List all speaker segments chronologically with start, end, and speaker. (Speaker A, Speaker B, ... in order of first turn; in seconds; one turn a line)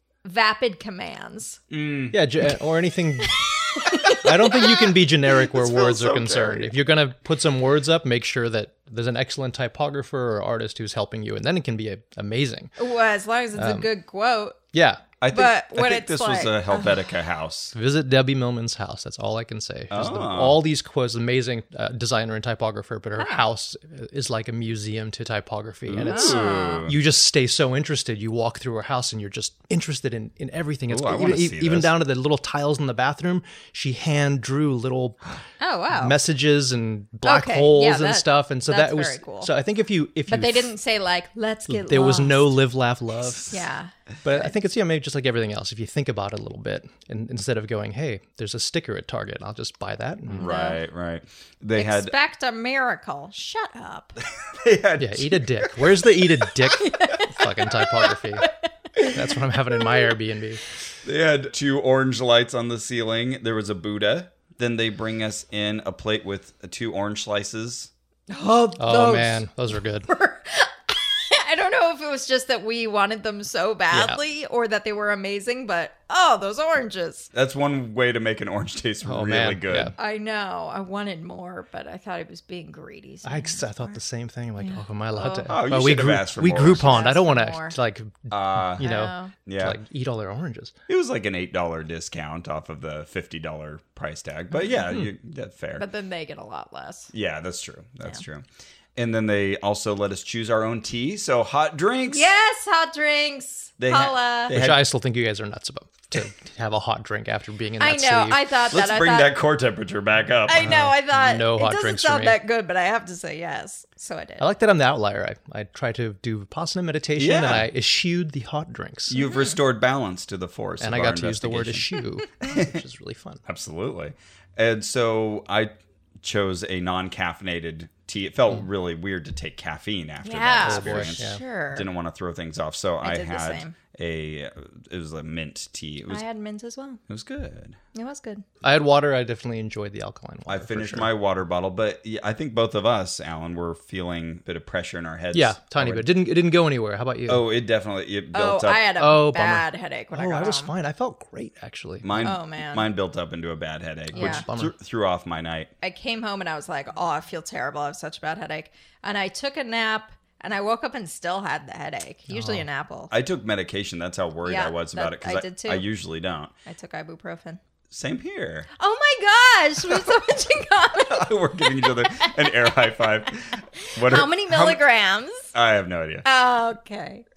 Speaker A: 0.2-1.6
Speaker B: 1.7-2.2
Speaker C: 2.1-3.4
Speaker A: 3.4-4.8
Speaker C: 4.1-12.7
Speaker B: 5.4-6.7
Speaker A: 12.8-14.6
Speaker C: 13.6-13.9
Speaker C: 14.7-15.1
Speaker B: 15.2-17.7
Speaker A: 15.3-16.9
Speaker C: 17.7-35.2
Speaker B: 19.9-20.6
Speaker B: 25.9-27.0
Speaker A: 26.1-26.9
Speaker B: 30.9-31.9
Speaker A: 35.6-36.2
Speaker C: 35.9-40.7
Speaker A: 37.2-39.5
Speaker A: 40.3-42.5
Speaker C: 41.7-43.6
Speaker A: 43.5-44.5
Speaker C: 44.2-50.5
Speaker B: 50.4-52.1
Speaker A: 50.4-50.8
Speaker A: 51.8-54.2
Speaker B: 54.5-56.0
Speaker C: 55.0-58.5
Speaker A: 56.8-57.8
Speaker C: 59.1-60.6
Speaker B: 61.0-67.9
Speaker A: 68.3-77.3
Speaker C: 68.8-70.1
Speaker C: 73.9-74.2
Speaker B: 77.3-79.9
Speaker C: 79.0-79.9
Speaker A: 80.0-84.0
Speaker C: 83.2-90.7
Speaker A: 84.6-85.5
Speaker B: 85.5-87.1
Speaker A: 86.6-87.8
Speaker B: 88.3-88.9
Speaker A: 88.8-89.3
Speaker B: 89.5-89.8
Speaker B: 90.9-95.9
Speaker A: 95.8-97.1
Speaker B: 97.1-98.4
Speaker B: 99.0-102.3
Speaker A: 102.1-104.5
Speaker B: 103.8-104.9
Speaker C: 104.5-108.4
Speaker A: 107.8-109.3
Speaker B: 108.7-110.8
Speaker A: 110.5-114.5
Speaker C: 110.6-112.4
Speaker C: 114.4-119.2
Speaker B: 117.2-117.7
Speaker B: 119.1-122.8
Speaker A: 119.2-119.6
Speaker C: 120.8-123.4
Speaker B: 123.5-136.2
Speaker A: 130.2-131.9
Speaker C: 130.6-131.4
Speaker A: 133.0-133.7
Speaker A: 136.1-137.0
Speaker B: 137.1-137.8
Speaker A: 137.9-138.4
Speaker C: 138.6-141.1
Speaker B: 140.5-146.1
Speaker C: 145.3-147.4
Speaker B: 147.3-148.9
Speaker A: 148.3-150.7
Speaker C: 149.0-152.3
Speaker B: 152.0-155.7
Speaker A: 152.2-152.9
Speaker C: 154.1-154.7
Speaker A: 154.2-154.4
Speaker A: 155.8-163.1
Speaker C: 162.3-162.7
Speaker B: 163.1-166.5
Speaker A: 164.4-165.8
Speaker A: 166.7-167.6
Speaker B: 167.9-168.7
Speaker A: 168.8-173.0
Speaker B: 171.0-174.8
Speaker A: 174.0-175.5
Speaker B: 175.5-176.3
Speaker A: 176.2-177.2